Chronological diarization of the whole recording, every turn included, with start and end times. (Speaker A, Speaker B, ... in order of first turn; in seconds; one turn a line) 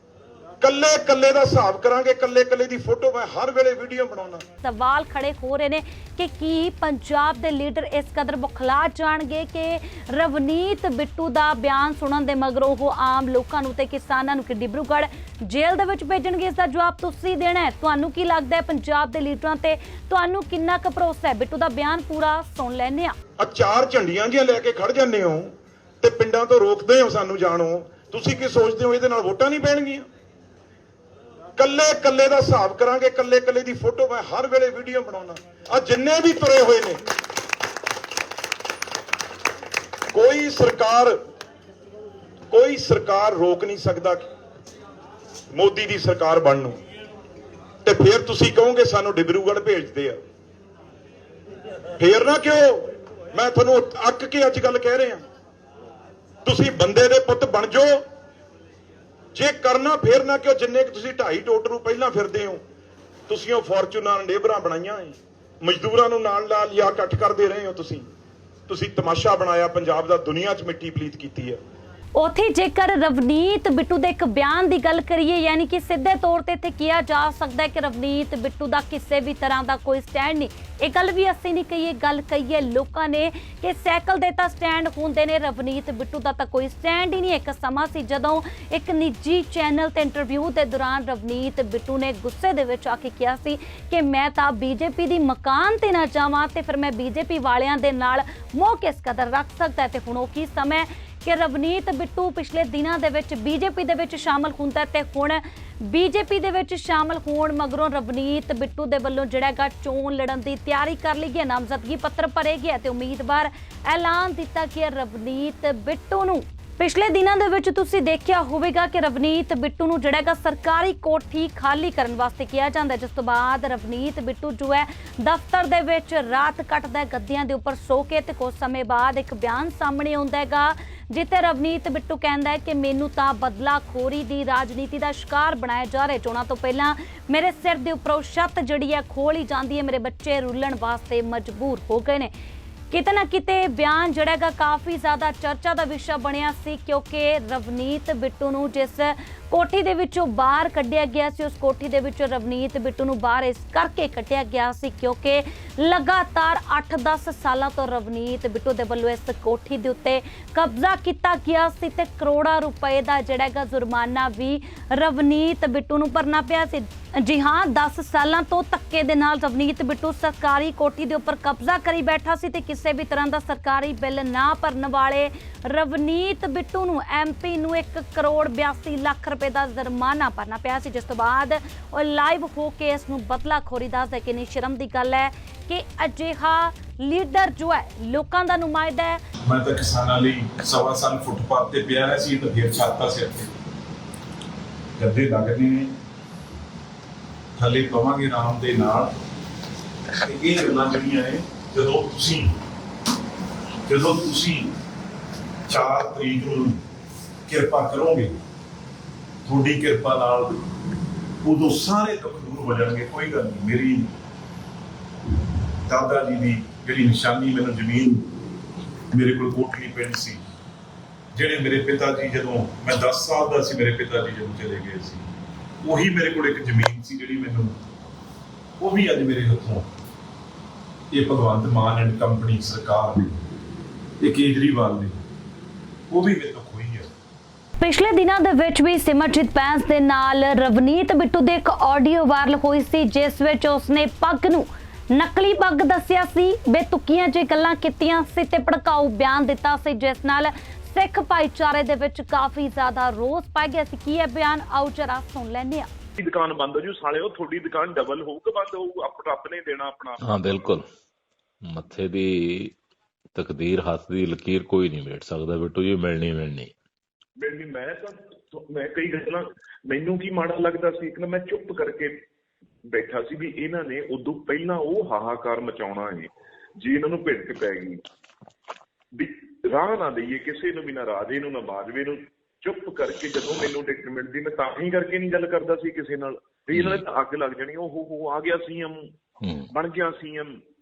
Speaker A: 0.6-4.4
Speaker B: 4.6-23.1
Speaker A: 23.4-30.0
Speaker A: 31.6-37.0
Speaker A: 40.1-41.1
Speaker A: 42.5-44.3
Speaker A: 45.5-46.8
Speaker A: 47.8-50.2
Speaker A: 52.0-55.2
Speaker A: 56.4-58.0
Speaker A: 59.3-62.6
Speaker A: 63.3-68.0
Speaker A: 68.7-71.6
Speaker B: 72.2-142.3
Speaker B: 142.9-189.2
Speaker C: 189.4-193.5
Speaker C: 195.0-195.9
Speaker C: 197.6-199.1
Speaker C: 200.2-202.5
Speaker C: 203.9-204.7
Speaker C: 205.7-206.8
Speaker C: 207.5-208.3
Speaker C: 209.4-210.6
Speaker C: 211.4-214.1
Speaker C: 215.9-218.2
Speaker C: 219.1-220.4
Speaker C: 221.3-225.2
Speaker C: 225.8-227.7
Speaker C: 228.8-229.8
Speaker C: 231.1-233.3
Speaker C: 234.2-235.2
Speaker C: 236.1-237.1
Speaker B: 237.8-255.9
Speaker D: 256.2-260.6
Speaker E: 260.2-260.9
Speaker E: 261.6-262.8
Speaker E: 263.3-266.7
Speaker D: 267.4-272.1
Speaker D: 272.9-276.3
Speaker D: 276.8-278.0
Speaker D: 279.1-288.9
Speaker E: 286.7-287.0
Speaker E: 289.4-289.7
Speaker D: 289.7-290.5